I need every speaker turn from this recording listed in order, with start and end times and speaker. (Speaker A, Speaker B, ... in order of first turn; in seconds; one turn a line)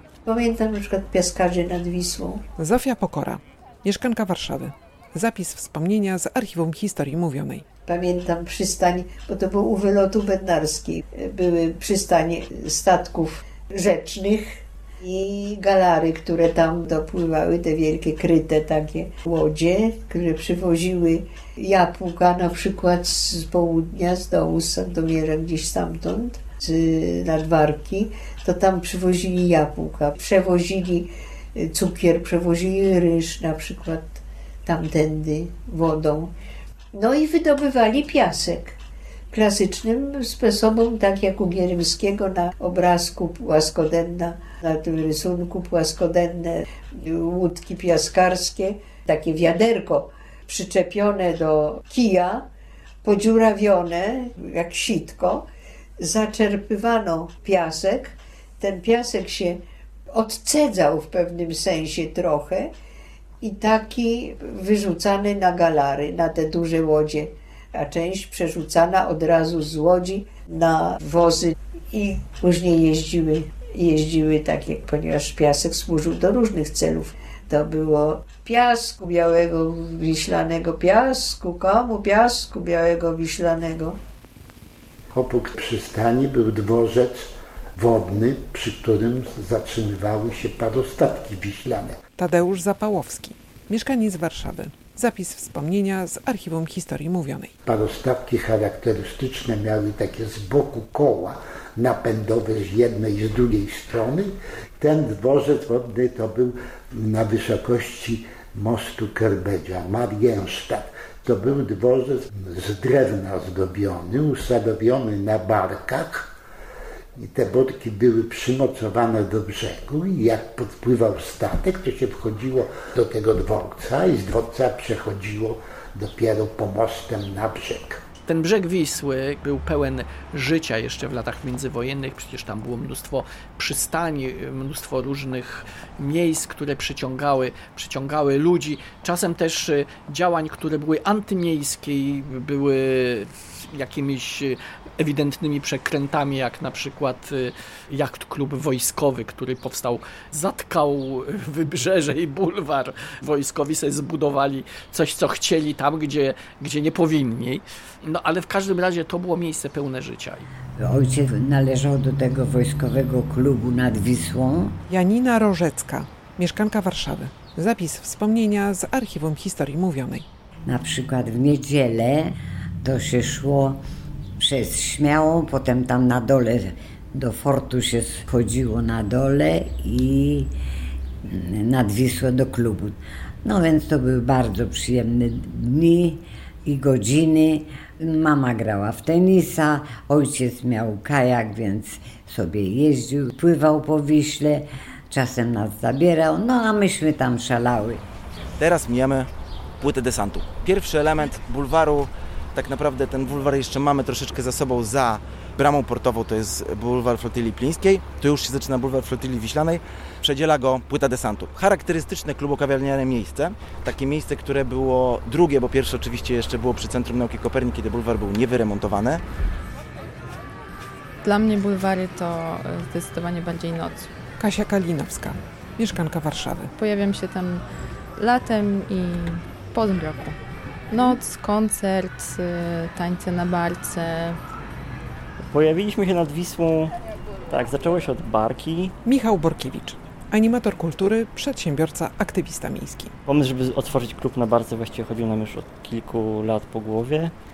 Speaker A: 0.2-2.4
Speaker B: 2.6-7.6
Speaker A: 7.9-36.3
Speaker A: 36.9-38.7
Speaker A: 39.3-52.5
Speaker A: 53.0-55.5
Speaker A: 56.0-59.6
Speaker A: 60.1-62.7
Speaker A: 63.4-84.0
Speaker C: 85.1-92.0
Speaker B: 92.2-97.5
Speaker C: 97.6-116.3
Speaker C: 117.2-128.0
Speaker D: 128.3-160.5
Speaker E: 160.8-164.8
Speaker B: 164.9-170.2
Speaker E: 170.7-173.8
Speaker E: 174.4-180.5
Speaker E: 181.2-198.0
Speaker F: 198.6-199.3
Speaker F: 199.8-219.2
Speaker G: 221.2-224.1
Speaker B: 224.4-226.7
Speaker G: 226.8-227.6
Speaker G: 228.2-230.4
Speaker G: 230.9-234.4
Speaker H: 235.5-236.9
Speaker H: 237.5-238.9
Speaker B: 239.0-243.1
Speaker H: 243.2-247.3